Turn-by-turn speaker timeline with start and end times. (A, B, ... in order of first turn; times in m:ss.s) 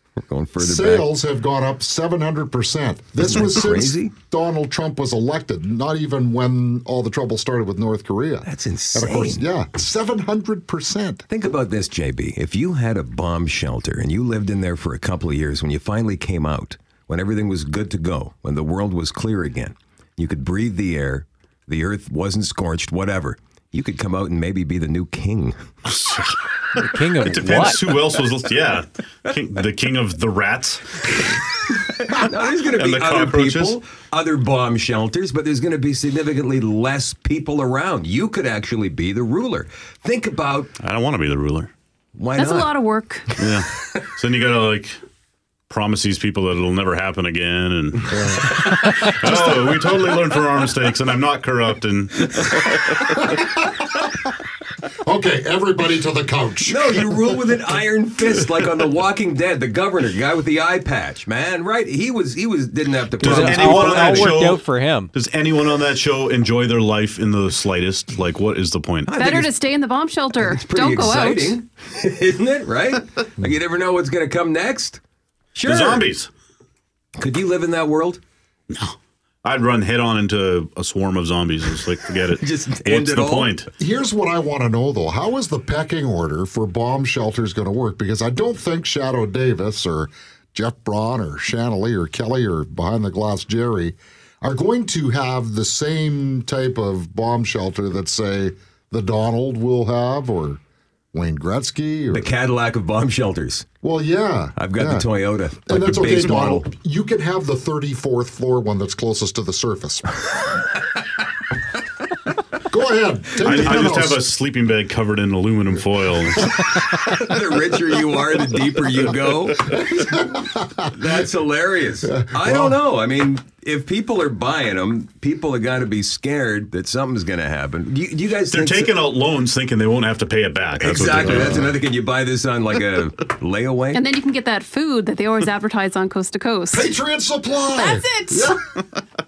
0:00.2-0:01.1 A
0:00.6-0:11.2 B
0:03.2-0:04.2 A
0:08.4-0:09.4 A
0:11.3-0:25.6 A
0:25.8-0:26.4 C
0:26.8-0:27.9 D
0:27.2-0:31.3 C
0:31.9-0:40.7 A
0:32.2-0:33.8 C
0:40.8-0:41.7 C
0:42.2-0:42.7 A
0:42.4-0:43.3 E
0:43.4-0:45.0 C
0:45.7-0:53.1 C
0:48.1-0:50.0 B
0:53.2-0:53.8 B
0:55.0-0:57.3 B
0:56.6-1:04.2 A
1:03.2-1:05.1 D
1:03.2-1:09.3 C
1:09.1-1:09.5 A
1:09.2-1:11.6 E
1:10.4-1:15.0 A
1:15.5-1:16.1 A
1:15.6-1:16.3 C
1:17.2-1:18.2 A
1:18.7-1:23.7 C
1:22.4-1:23.5 A
1:23.8-1:40.6 B
1:41.1-1:42.3 B
1:42.1-1:43.7 A
1:43.8-1:45.1 B
1:44.6-1:46.7 A
1:45.6-1:50.2 B
1:52.7-1:54.2 B
1:53.4-1:56.7 C
1:57.0-1:59.8 A
1:59.7-2:00.9 B
2:00.9-2:09.0 A
2:02.0-2:02.8 B
2:08.5-2:11.7 C
2:10.8-2:14.0 A
2:11.3-2:11.7 B
2:13.9-2:16.9 E
2:16.7-2:18.6 B
2:17.7-2:18.6 E